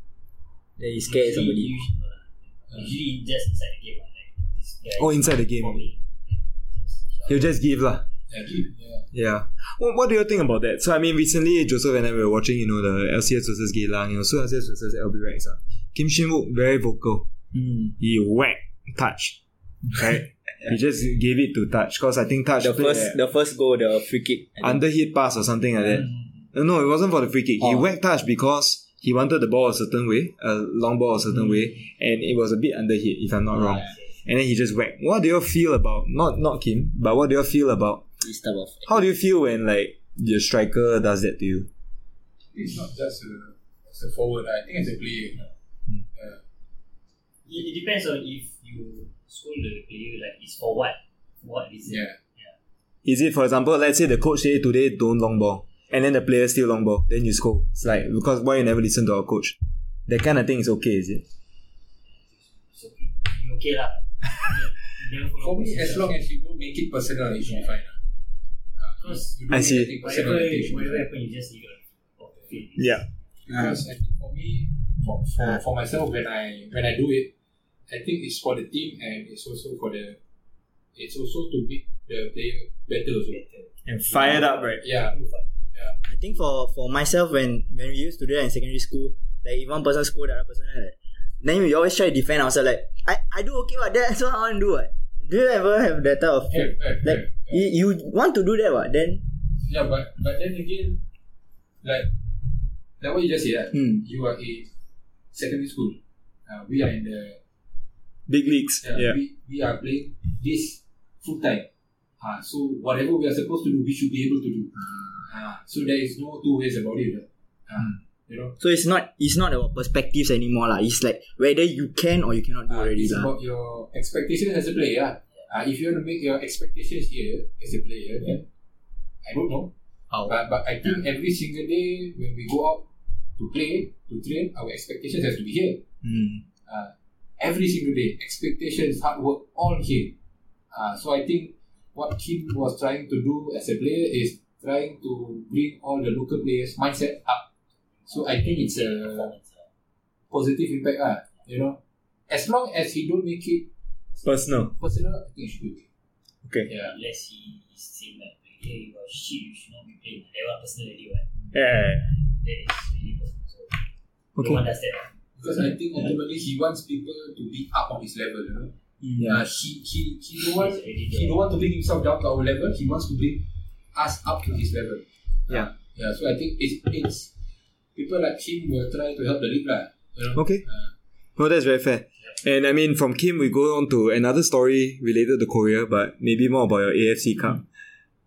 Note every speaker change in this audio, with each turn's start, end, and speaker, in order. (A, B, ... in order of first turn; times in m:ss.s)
0:00.8-0:01.7 A
0:01.0-0:07.5 B
0:05.0-0:05.8 C
0:07.3-0:08.0 C
0:08.3-0:09.1 D
0:09.1-0:17.3 C
0:17.5-0:17.9 A
0:18.0-0:19.4 C
0:19.9-0:23.2 C
0:22.6-0:24.8 A
0:24.6-0:38.0 C
0:25.8-0:26.4 B
0:27.6-0:27.9 A
0:33.5-0:34.2 B
0:38.2-0:39.0 A
0:38.8-0:41.7 C
0:42.5-0:45.4 D
0:46.1-0:46.4 D
0:47.4-0:52.5 B
0:51.9-0:52.2 D
0:53.0-1:01.2 C
1:02.3-1:06.1 B
1:05.4-1:08.0 D
1:07.4-1:07.7 B
1:08.8-1:11.0 D
1:09.0-1:13.1 B
1:09.5-1:09.9 C
1:12.8-1:13.0 C
1:13.4-1:17.3 D
1:17.9-1:20.2 D
1:20.9-1:23.4 D
1:23.3-1:25.5 B
1:23.8-1:24.8 C
1:24.8-1:25.2 D
1:26.0-1:39.2 A
1:36.5-1:37.6 D
1:39.6-1:41.0 D
1:41.8-1:42.1 D
1:43.0-1:44.7 D
1:45.3-1:47.4 D
1:48.3-1:49.2 C
1:48.8-1:51.7 D
1:52.2-1:58.5 D
1:58.6-2:03.3 A
2:02.7-2:08.4 D
2:09.2-2:09.7 D
2:10.2-2:12.8 D
2:13.4-2:15.8 D
2:16.0-2:16.4 A
2:16.6-2:20.1 D
2:20.7-2:27.4 D
2:28.0-2:29.7 B
2:28.1-2:29.3 D
2:30.3-2:33.7 D
2:34.2-2:34.7 C
2:34.8-2:35.8 D
2:36.7-2:36.9 D
2:36.7-2:43.8 B
2:41.5-2:42.1 C
2:44.4-2:44.6 C
2:44.4-2:45.1 B
2:45.4-2:48.7 D
2:49.2-2:57.3 D
2:50.5-2:51.4 B
2:57.9-3:00.9 D
3:00.3-3:00.6 C
3:01.4-3:07.6 C